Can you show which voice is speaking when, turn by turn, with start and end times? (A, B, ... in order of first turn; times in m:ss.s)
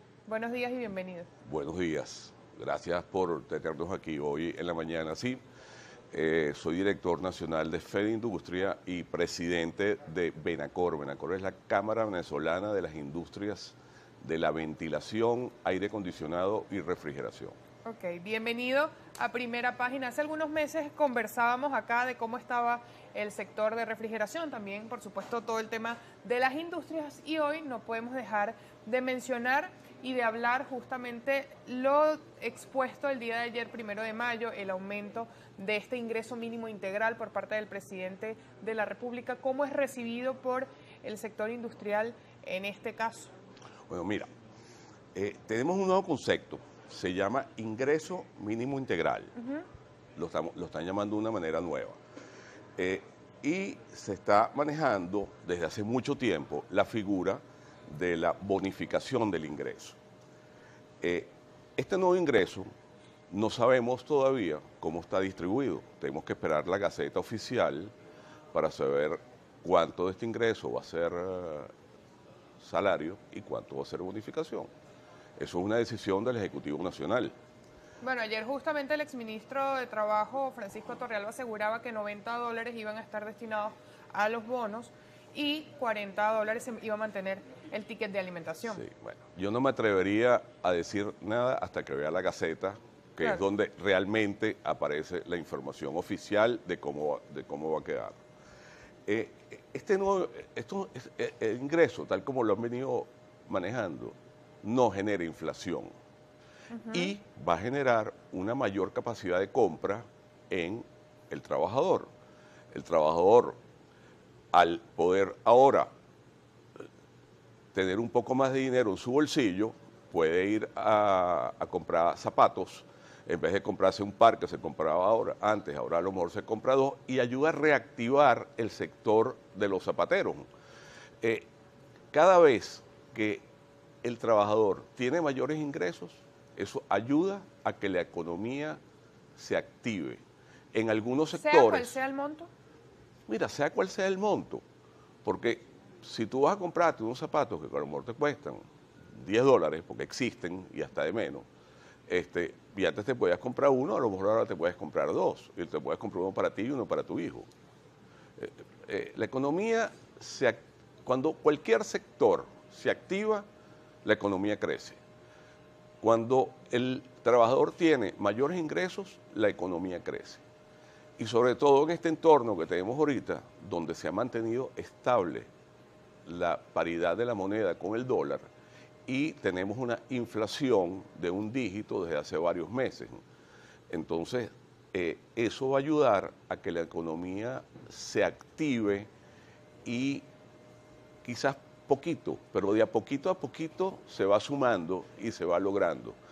0:00.2-0:01.3 A
0:01.4-0:05.4 B
0:06.1-0:17.5 B
0:17.8-0:43.3 A
0:43.9-0:44.3 B
0:45.1-0:49.3 B
0:49.4-0:49.6 A
0:50.2-0:52.0 B
0:52.8-1:00.0 B
1:01.0-1:02.7 B
1:03.3-1:07.9 B
1:08.5-1:11.7 B
1:12.6-1:14.7 B
1:15.4-1:17.3 B
1:18.0-1:28.8 A
1:28.7-1:38.2 B
1:39.0-1:45.9 B
1:46.7-1:47.1 A
1:46.9-1:52.1 B
1:52.7-1:53.6 B
1:54.5-1:55.9 B
1:57.7-2:10.4 B
2:11.2-2:11.5 B
2:12.1-2:13.4 B
2:14.0-2:18.8 B
2:19.4-2:21.9 B
2:21.3-2:22.5 A
2:23.3-2:24.6 B
2:25.2-2:31.5 B
2:32.1-2:37.4 B
2:38.4-2:43.4 B
2:44.0-2:45.0 B
2:46.0-2:50.4 B
2:51.2-2:55.5 B
2:56.2-2:58.4 B
2:59.0-3:03.2 B
3:03.9-3:09.1 B
3:09.8-3:10.2 B
3:11.2-3:16.2 B